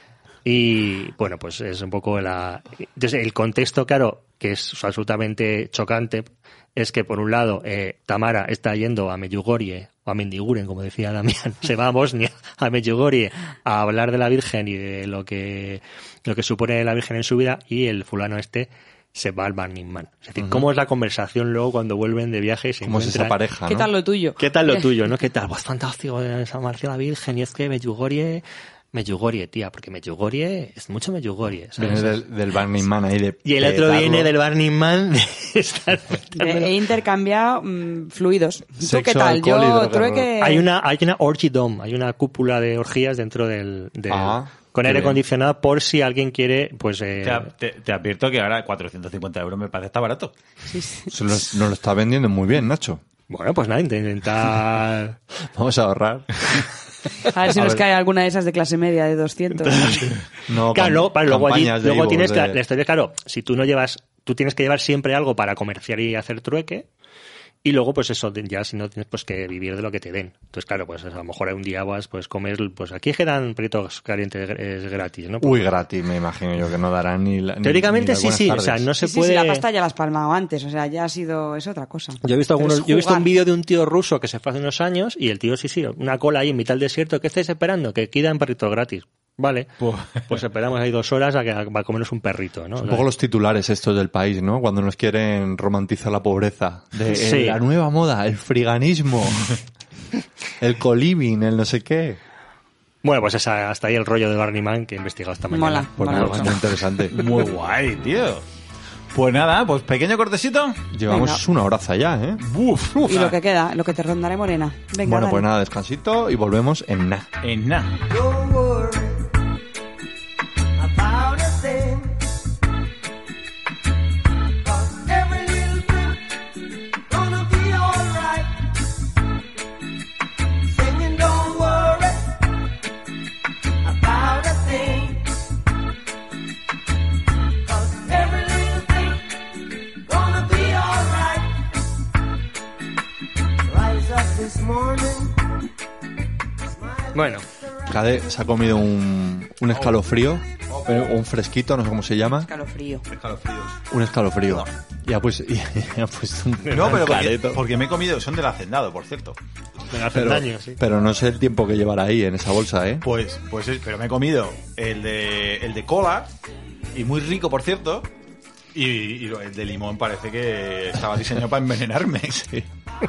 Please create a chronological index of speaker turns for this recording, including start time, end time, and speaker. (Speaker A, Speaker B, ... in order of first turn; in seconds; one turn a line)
Speaker A: 0.4-23.4
Speaker B: 20.4-20.7
Speaker B: 22.8-23.9
Speaker C: 23.7-24.9
Speaker A: 24.4-32.2
Speaker B: 31.8-34.3
Speaker A: 33.4-36.7
Speaker C: 36.4-40.7
Speaker B: 38.8-40.3
Speaker A: 40.4-47.5
Speaker B: 44.1-45.2
Speaker D: 47.2-50.3
Speaker C: 50.7-51.1
Speaker B: 51.1-53.0
Speaker A: 53.3-55.2
Speaker B: 55.4-56.6
Speaker C: 57.3-60.1
Speaker B: 57.5-57.8
Speaker B: 60.5-62.6
Speaker A: 60.7-66.9
Speaker A: 67.6-75.7
Speaker B: 75.4-78.9
Speaker A: 77.6-79.6
Speaker C: 79.0-83.3
Speaker A: 82.2-89.7
Speaker D: 89.8-90.2
Speaker A: 90.3-93.0
Speaker B: 92.8-99.5
Speaker A: 97.1-97.6
Speaker B: 100.6-102.2
Speaker A: 103.0-106.6
Speaker C: 105.5-106.5
Speaker B: 106.0-107.2
Speaker D: 107.1-108.4
Speaker D: 109.1-110.8
Speaker B: 110.9-112.4
Speaker C: 111.1-111.4
Speaker D: 112.4-113.3
Speaker C: 113.0-115.5
Speaker B: 115.0-117.3
Speaker D: 117.4-117.9
Speaker E: 118.1-119.3
Speaker E: 120.8-122.3
Speaker E: 124.6-126.4
Speaker E: 127.0-128.7
Speaker E: 130.6-132.4
Speaker E: 133.8-135.3
Speaker E: 137.6-141.7
Speaker E: 143.6-145.5
Speaker E: 146.7-147.4
Speaker A: 147.1-147.4
Speaker B: 147.9-152.5
Speaker D: 150.7-151.0
Speaker C: 152.4-153.0
Speaker D: 153.1-153.8
Speaker B: 153.9-157.6
Speaker A: 156.7-157.2
Speaker D: 156.7-159.4
Speaker A: 159.9-160.8
Speaker B: 160.1-163.0
Speaker D: 163.0-166.3
Speaker D: 166.9-168.1
Speaker D: 168.7-172.5
Speaker B: 172.3-172.7